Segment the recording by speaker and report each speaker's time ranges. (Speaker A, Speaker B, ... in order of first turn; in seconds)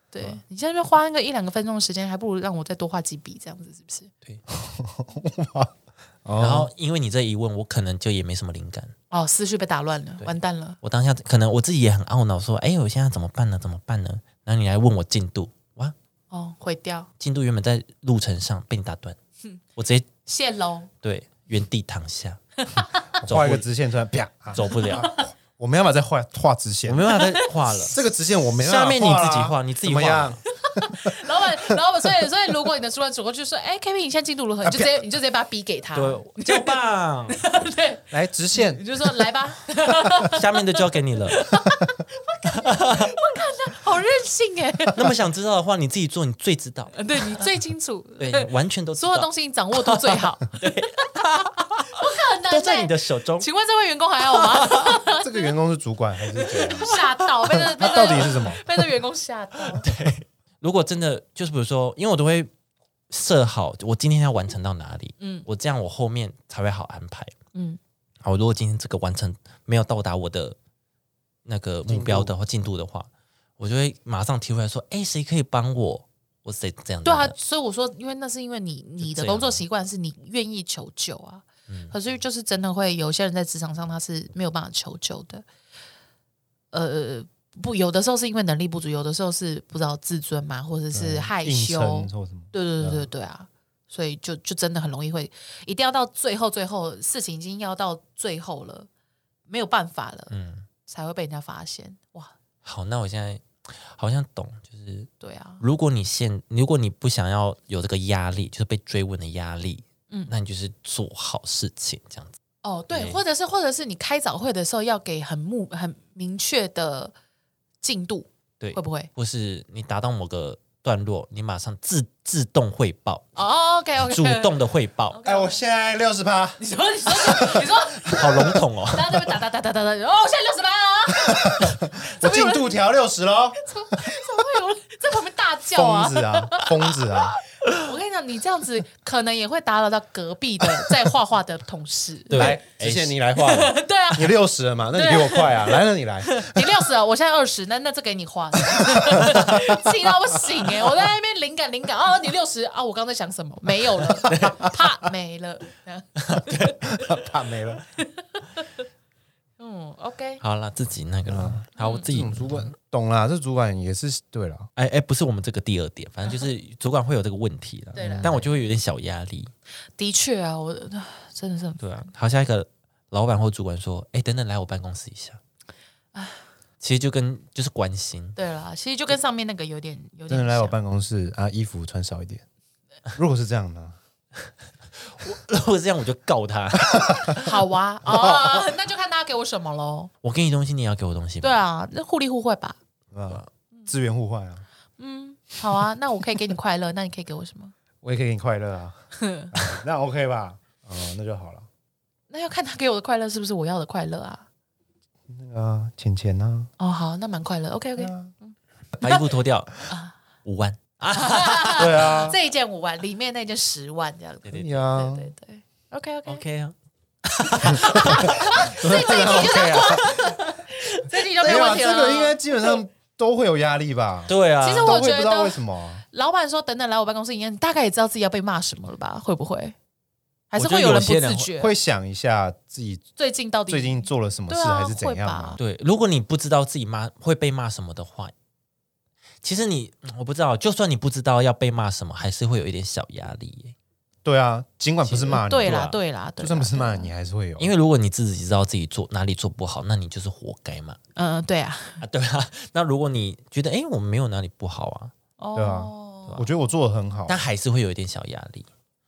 Speaker A: 0.1-4.1, 9.1-10.8, 16.3-17.1, 20.2-20.9, 22.6-23.0, 24.8-25.2, 27.1-27.5, 30.6-45.1, 46.9-51.1, 51.9-55.5, 56.4-59.9, 65.2-65.5, 77.0-85.4, 86.7-98.9, 99.5-100.3, 100.9-102.3, 105.2-105.6, 112.6-117.1, 117.8-119.1, 123.3-124.6, 125.1-125.6, 126.6-132.8, 133.6-142.6, 143.3-144.4, 144.9-157.1, 158.0-158.7, 159.6-160.4, 161.8-162.1, 167.9-168.5, 170.0-172.1, 176.1-176.5, 178.3-180.8, 187.3-190.1, 191.4-192.8, 195.0-197.7, 199.2-199.5, 202.3-204.4, 206.8-209.2, 209.9-210.1, 211.1-216.4, 217.6-222.8, 224.6-229.7, 230.5-231.7, 233.2-235.6, 245.1-247.1, 251.2-252.0, 255.4-256.4
Speaker B: 4.5-5.7, 6.2-6.7, 23.2-27.2, 27.8-31.7, 34.6-35.0, 38.1-39.2, 55.0-56.9, 57.5-58.6, 71.9-72.3, 90.9-93.1, 125.2-128.3, 131.1-134.2, 135.7-137.4, 142.3-146.7, 148.7-149.8, 156.9-157.8, 161.3-164.7, 168.0-168.4, 180.3-182.4, 183.1-184.0, 188.1-188.5, 193.1-194.6, 198.0-199.0, 199.5-201.7, 205.3-206.7, 208.0-208.3, 211.8-212.4, 214.6-215.3, 217.9-220.3, 221.4-226.0, 231.6-233.1, 233.7-235.6, 244.2-247.7, 255.5-257.4
Speaker C: 6.4-8.9, 10.2-15.9, 17.2-19.2, 19.8-20.1, 21.0-22.4, 23.2-23.6, 24.5-25.1, 26.9-28.0, 28.6-30.4, 35.9-37.4, 40.2-41.4, 42.4-43.1, 44.9-47.0, 48.2-53.5, 54.3-55.0, 59.8-62.5, 63.1-67.3, 68.2-70.6, 71.5-77.3, 79.0-79.6, 81.7-81.9, 100.3-100.7, 102.6-105.1, 105.6-112.4, 112.9-113.2, 118.6-123.2, 124.0-125.2, 128.1-129.1, 142.3-143.2, 149.0-149.6, 154.2-154.8, 156.2-156.9, 160.4-162.7, 164.8-169.5, 171.8-175.4, 176.8-178.4, 185.1-187.5, 190.2-191.6, 209.0-209.7, 210.4-212.0, 214.4-214.8, 216.2-218.9, 224.3-225.0, 230.5-231.5, 235.6-238.3, 239.4-243.7, 245.1-245.8, 247.6-251.0, 252.0-255.1, 257.3-258.7